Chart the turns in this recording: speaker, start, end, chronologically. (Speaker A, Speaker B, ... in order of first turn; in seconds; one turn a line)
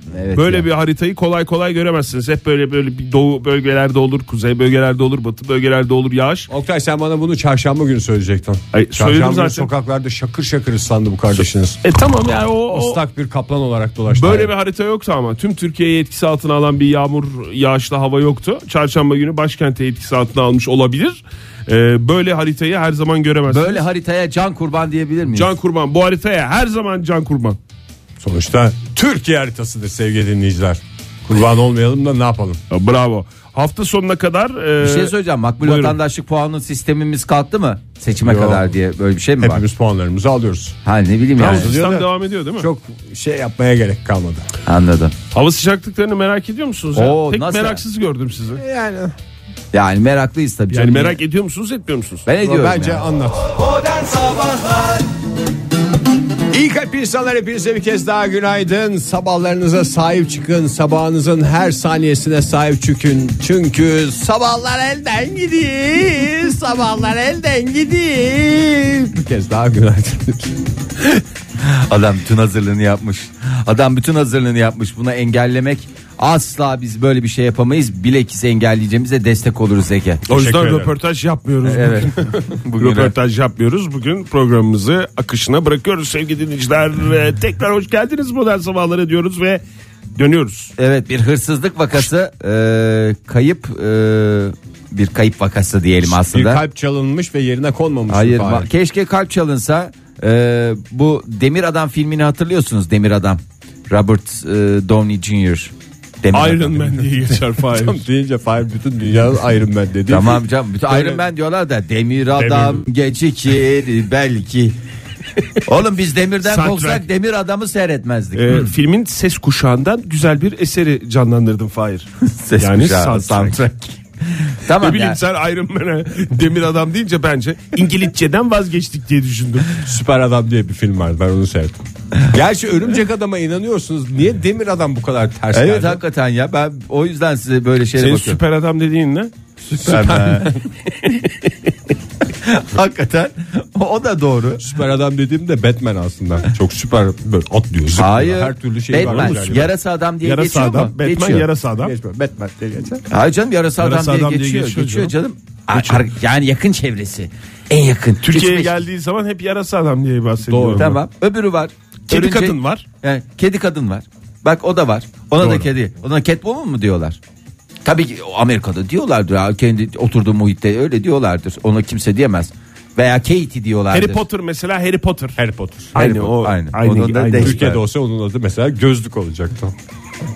Speaker A: 0.1-0.7
Speaker B: 0.3-6.5
Speaker C: 6.5-11.8
Speaker B: 8.7-9.7
Speaker B: 11.4-13.0
Speaker C: 12.7-14.5
Speaker B: 14.1-23.8
Speaker A: 23.5-25.5
Speaker B: 25.3-27.6
Speaker C: 28.2-32.6
Speaker B: 32.7-36.0
Speaker A: 34.8-39.6
Speaker C: 38.2-38.7
Speaker C: 39.4-40.8
Speaker A: 40.8-41.7
Speaker C: 41.4-44.5
Speaker B: 41.4-42.7
Speaker A: 44.6-45.1
Speaker B: 45.3-48.6
Speaker A: 46.9-47.8
Speaker C: 48.5-49.1
Speaker A: 49.7-51.2
Speaker B: 50.7-52.3
Speaker A: 52.2-53.0
Speaker C: 52.4-54.1
Speaker C: 56.5-70.6
Speaker A: 71.6-80.8
Speaker B: 80.3-89.6
Speaker C: 80.3-80.9
Speaker A: 81.6-83.1
Speaker B: 90.2-90.7
Speaker A: 90.8-96.6
Speaker C: 96.0-98.7
Speaker A: 98.1-107.0
Speaker B: 106.3-108.0
Speaker C: 107.5-111.2
Speaker A: 110.1-114.8
Speaker C: 112.3-112.8
Speaker A: 115.6-118.7
Speaker B: 116.4-117.0
Speaker B: 118.3-122.1
Speaker A: 122.2-125.2
Speaker B: 122.6-123.7
Speaker B: 124.7-129.8
Speaker C: 129.8-136.0
Speaker A: 135.5-138.4
Speaker B: 137.9-139.3
Speaker C: 139.6-140.6
Speaker A: 139.8-140.6
Speaker A: 142.4-144.7
Speaker C: 144.6-149.7
Speaker A: 148.0-151.5
Speaker B: 149.0-149.7
Speaker B: 150.2-151.9
Speaker C: 151.8-153.0
Speaker A: 153.1-158.8
Speaker B: 153.8-155.1
Speaker C: 153.9-154.8
Speaker B: 158.2-160.9
Speaker C: 160.4-161.0
Speaker A: 160.8-167.2
Speaker B: 162.1-162.8
Speaker A: 167.8-174.2
Speaker B: 173.9-175.4
Speaker C: 175.3-175.9
Speaker B: 175.9-177.6
Speaker A: 175.9-177.8
Speaker C: 177.3-179.7